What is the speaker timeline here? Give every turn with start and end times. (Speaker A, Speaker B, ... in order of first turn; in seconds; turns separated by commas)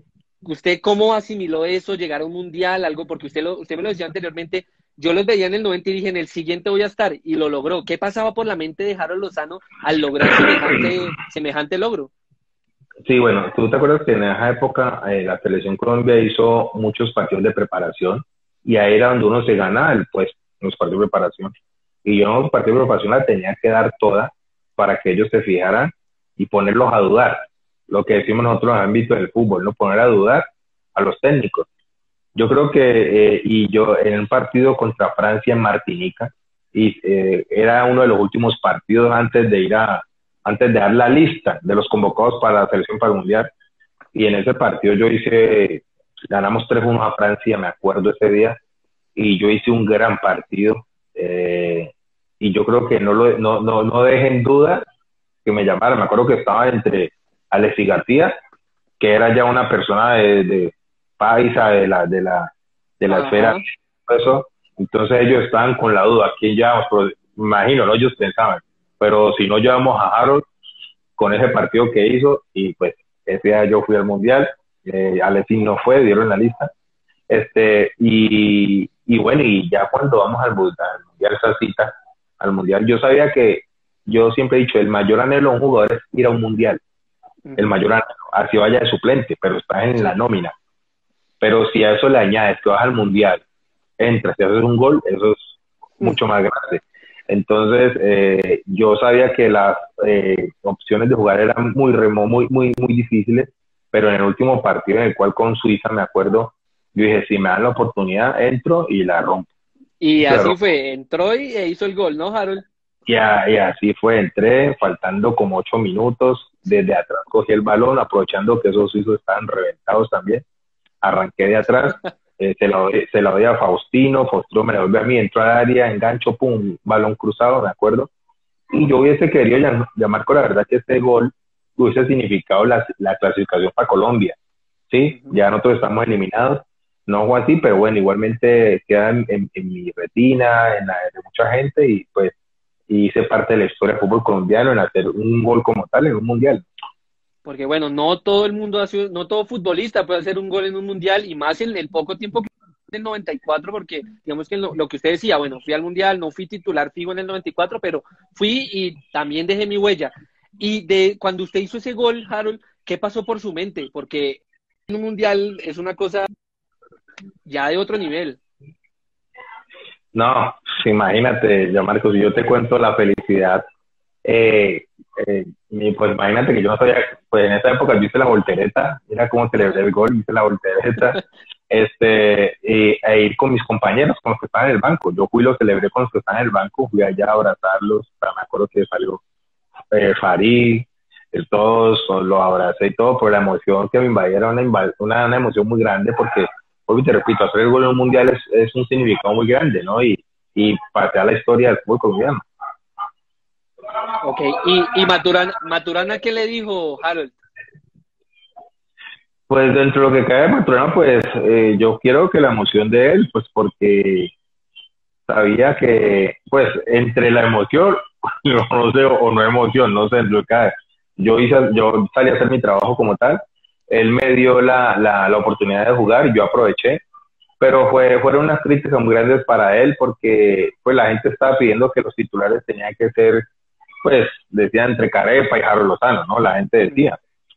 Speaker A: 0.4-12.1, Speaker B: 13.1-21.5, Speaker B: 22.1-31.7, Speaker B: 32.4-43.5, Speaker B: 44.1-48.6, Speaker B: 49.2-54.9, Speaker B: 55.5-58.3, Speaker B: 59.0-70.5, Speaker A: 63.1-63.6, Speaker B: 71.2-76.7, Speaker B: 77.3-86.8, Speaker B: 87.6-90.6, Speaker B: 91.4-93.4, Speaker B: 94.0-109.5, Speaker A: 110.0-112.7, Speaker B: 110.2-110.6, Speaker B: 113.1-120.4, Speaker B: 121.0-128.1, Speaker B: 128.7-134.4, Speaker B: 134.9-142.3, Speaker B: 142.9-146.7, Speaker A: 147.4-166.3, Speaker A: 167.5-168.4, Speaker B: 170.1-173.6, Speaker B: 174.2-189.2, Speaker B: 189.9-202.4, Speaker A: 204.2-207.4, Speaker B: 209.5-214.3, Speaker B: 215.3-227.0, Speaker B: 227.6-233.5, Speaker B: 234.0-237.2